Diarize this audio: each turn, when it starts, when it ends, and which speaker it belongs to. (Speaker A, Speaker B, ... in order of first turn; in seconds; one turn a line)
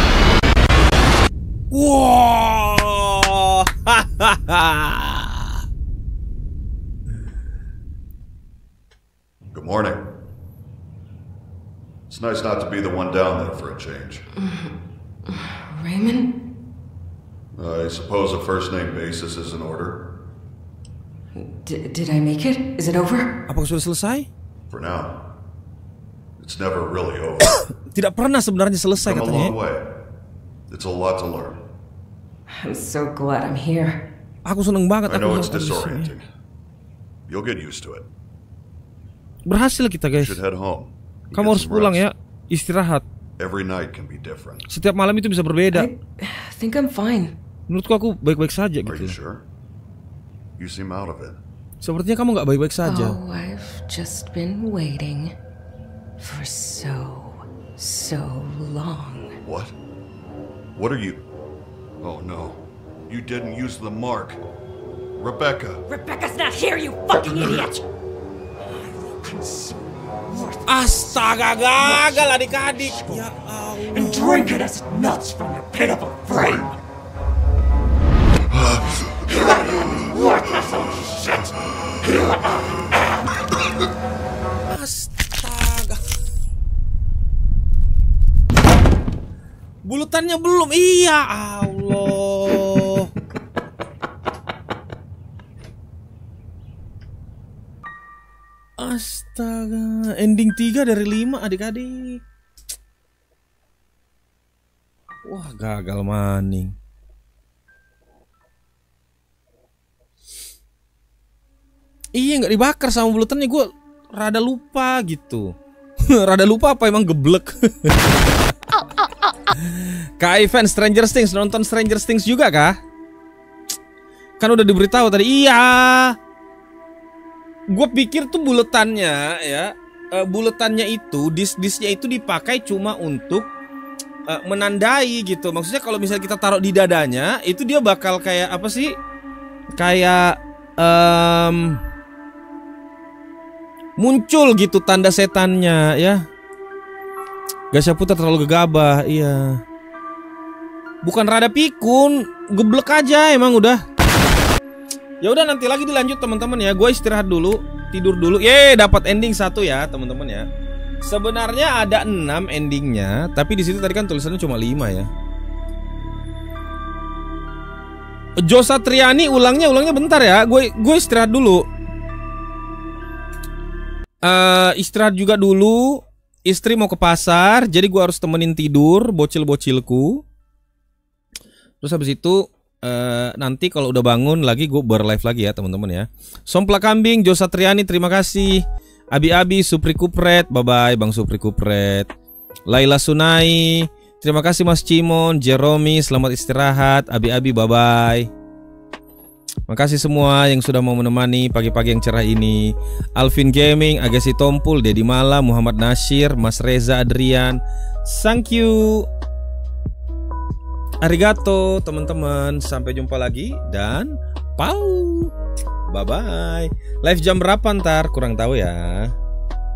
Speaker A: 1.7-5.6
Speaker B: 9.5-10.1
Speaker B: 12.1-14.2
Speaker C: 14.4-14.7
Speaker C: 15.3-16.3
Speaker B: 17.6-20.0
Speaker C: 21.4-23.3
Speaker A: 23.5-24.3
Speaker B: 24.7-25.1
Speaker B: 26.4-27.6
Speaker A: 27.5-29.6
Speaker B: 29.0-29.9
Speaker B: 30.7-31.6
Speaker C: 32.5-34.0
Speaker A: 34.5-36.1
Speaker B: 35.1-36.3
Speaker B: 37.3-38.1
Speaker A: 39.5-40.4
Speaker B: 40.2-42.1
Speaker A: 41.3-43.0
Speaker B: 43.4-44.6
Speaker A: 44.7-45.9
Speaker C: 45.7-47.4
Speaker A: 47.7-49.2
Speaker B: 48.9-49.5
Speaker B: 50.6-51.4
Speaker A: 51.8-53.2
Speaker C: 52.8-55.3
Speaker C: 56.2-59.4
Speaker B: 59.4-59.8
Speaker B: 60.8-61.2
Speaker B: 62.0-64.4
Speaker B: 65.2-65.8
Speaker C: 65.9-67.8
Speaker D: 69.0-69.8
Speaker A: 70.7-74.6
Speaker D: 74.0-76.7
Speaker D: 80.1-81.5
Speaker A: 84.7-86.0
Speaker A: 89.8-93.1
Speaker A: 98.8-102.2
Speaker A: 105.3-106.8
Speaker A: 112.1-115.5
Speaker A: 116.1-118.5
Speaker A: 119.5-122.8
Speaker A: 124.4-126.2
Speaker A: 127.7-133.4
Speaker A: 134.3-138.9
Speaker A: 139.8-141.8
Speaker A: 144.0-146.2
Speaker A: 147.7-149.6
Speaker A: 151.0-153.8
Speaker A: 155.2-160.5
Speaker A: 161.0-165.1
Speaker A: 168.4-171.7
Speaker A: 174.2-180.2
Speaker A: 181.8-188.6
Speaker A: 189.1-192.1
Speaker A: 192.7-198.3
Speaker A: 199.7-209.1
Speaker A: 211.0-215.3
Speaker A: 215.9-219.1